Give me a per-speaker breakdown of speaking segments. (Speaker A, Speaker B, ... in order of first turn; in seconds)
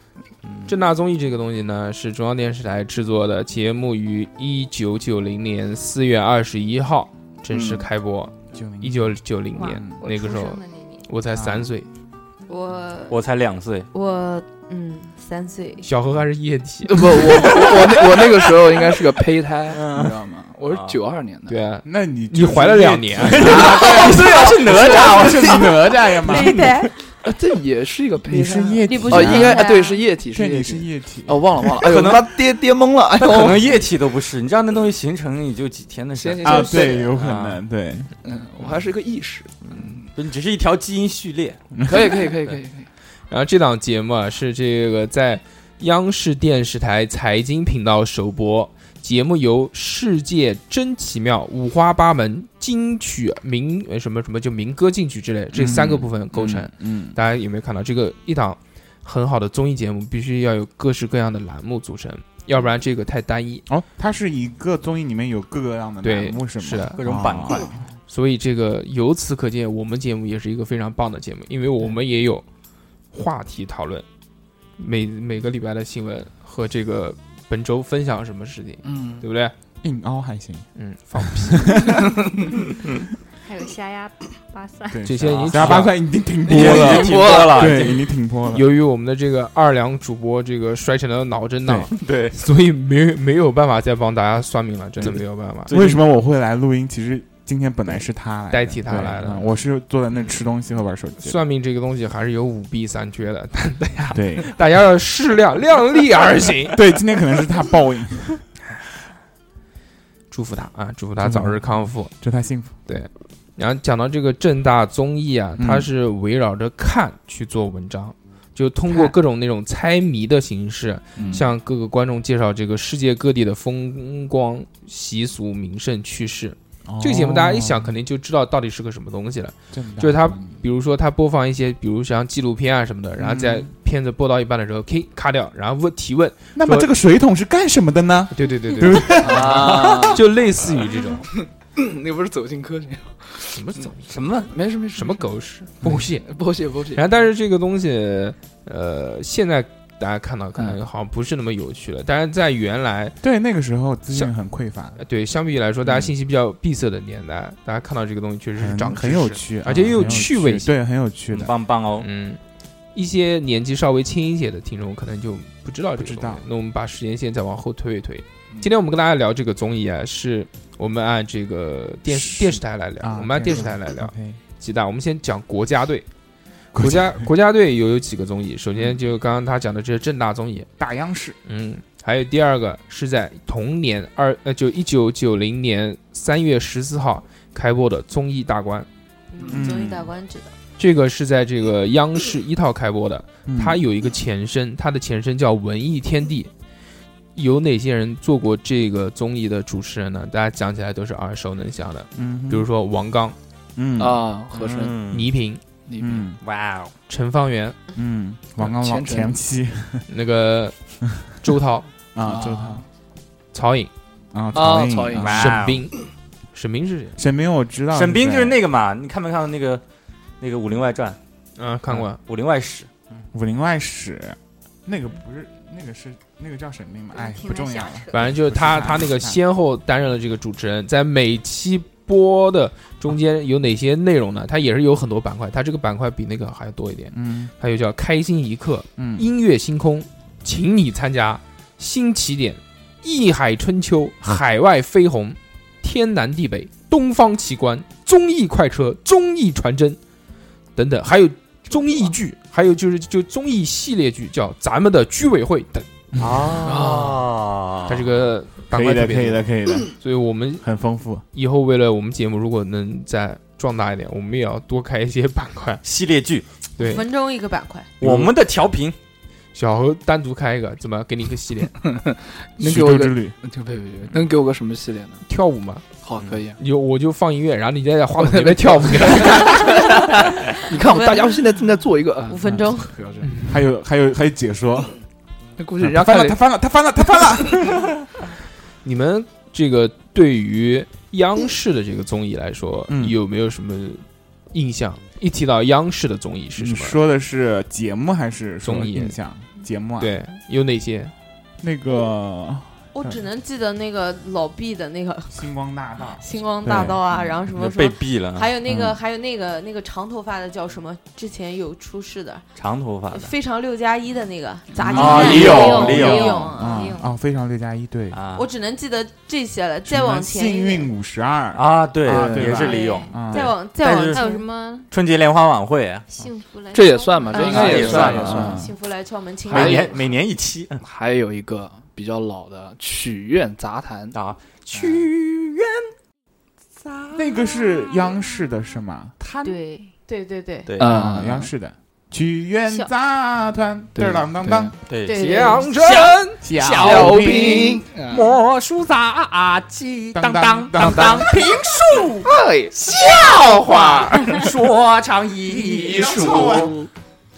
Speaker A: 0.4-0.7, 13.1-13.9, 19.7-21.0, 23.2-25.8, 31.8-32.3, 33.2-37.6, 39.7-42.6, 67.0-67.7, 85.2-85.9, 86.4-88.1, 92.0-92.3, 95.7-96.0, 144.1-144.5, 161.3-162.1, 204.5-205.3, 206.4-206.9, 215.1-215.8, 217.9-219.8, 220.4-221.2, 222.2-223.2, 256.2-258.1, 265.8-266.4, 268.0-268.9, 307.1-308.5, 312.6-313.3, 314.9-316.4, 318.1-318.5, 321.5-324.2, 324.9-326.1, 327.3-328.6, 329.5-330.8, 334.1-335.9, 336.8-337.3, 339.2-339.6, 344.9-356.8
Speaker B: 0.7-11.9, 15.8-17.6, 21.5-23.7, 43.3-63.6, 66.0-67.0, 68.1-72.4, 73.1-74.0, 74.8-79.5, 80.8-81.8, 85.0-86.0, 88.5-95.7, 98.5-99.5, 101.2-106.8, 110.3-112.1, 112.8-136.9, 138.3-139.5, 140.0-141.3, 143.5-144.1, 144.9-146.3, 146.9-153.2, 155.0-160.7, 162.0-162.4, 162.9-176.1, 176.8-180.7, 181.4-188.9, 190.8-196.5, 197.3-203.3, 205.1-205.6, 207.1-207.8, 210.1-211.9, 213.5-213.9, 215.3-215.9, 216.5-217.2, 221.6-222.2, 228.1-250.0, 250.8-255.9, 257.9-260.6, 261.3-265.8, 266.8-267.1, 269.6-271.8, 275.3-275.9, 276.6-279.7, 283.2-283.6, 288.8-297.0, 298.6-299.2, 300.0-301.1, 345.1-346.4
Speaker C: 7.5-7.9, 16.9-21.6, 23.5-25.9, 27.2-33.8, 36.1-37.1, 38.2-40.1, 41.8-42.9, 78.8-79.2, 86.5-87.8, 121.2-121.5, 139.2-140.2, 141.4-143.9, 144.4-145.3, 146.2-147.1, 204.0-205.0, 205.8-206.3, 208.6-209.4, 212.2-212.8, 214.5-215.3, 256.6-257.2, 271.8-275.2, 276.0-276.6, 278.2-283.3, 285.6-286.4, 322.1-322.6, 326.7-328.7, 329.5-329.9, 330.8-334.2, 340.8-341.5, 343.9-344.7, 346.8-348.4, 352.2-352.8, 355.8-356.9
Speaker D: 8.5-9.9, 11.3-11.7, 19.9-20.2, 21.9-26.9, 28.3-29.7, 30.3-31.6, 36.4-38.1, 55.5-57.2, 63.7-67.8, 79.8-80.7, 81.4-82.1, 84.9-88.7, 95.7-101.4, 104.1-104.5, 106.7-108.4, 111.2-112.7, 115.6-115.9, 118.9-119.1, 126.8-128.0, 129.7-130.6, 133.2-133.7, 136.6-139.9, 153.2-155.0, 158.6-161.5, 166.0-166.4, 172.1-174.4, 176.8-177.2, 180.8-181.4, 189.5-190.1, 193.5-193.8, 202.2-202.7, 203.8-204.2, 206.0-206.4, 207.9-210.1, 212.2-212.8, 214.3-215.7, 217.2-218.6, 223.3-229.4, 237.1-237.5, 239.0-239.3, 256.2-256.4, 258.7-259.9, 260.6-261.2, 272.6-273.3, 283.5-284.9, 285.8-287.9, 292.9-293.2, 296.6-300.1, 301.6-303.2, 305.3-307.0, 308.7-309.0, 314.8-318.2, 319.9-323.5, 327.6-328.7, 337.1-339.1, 340.8-344.7, 346.4-347.8, 350.1-351.4, 356.0-356.7
Speaker E: 9.6-11.1, 12.5-13.2, 83.4-85.1, 227.1-228.2, 314.9-317.1, 322.6-323.3, 324.1-324.9, 326.1-328.1, 339.4-339.9, 345.1-345.7
Speaker F: 13.9-15.9, 26.2-26.9, 28.8-30.0, 189.3-190.5, 266.8-267.9, 280.7-281.4, 282.3-283.0, 302.9-305.5, 306.1-312.4, 313.1-316.9, 318.3-320.9, 322.9-324.4, 327.3-330.0, 340.1-340.7, 345.1-345.4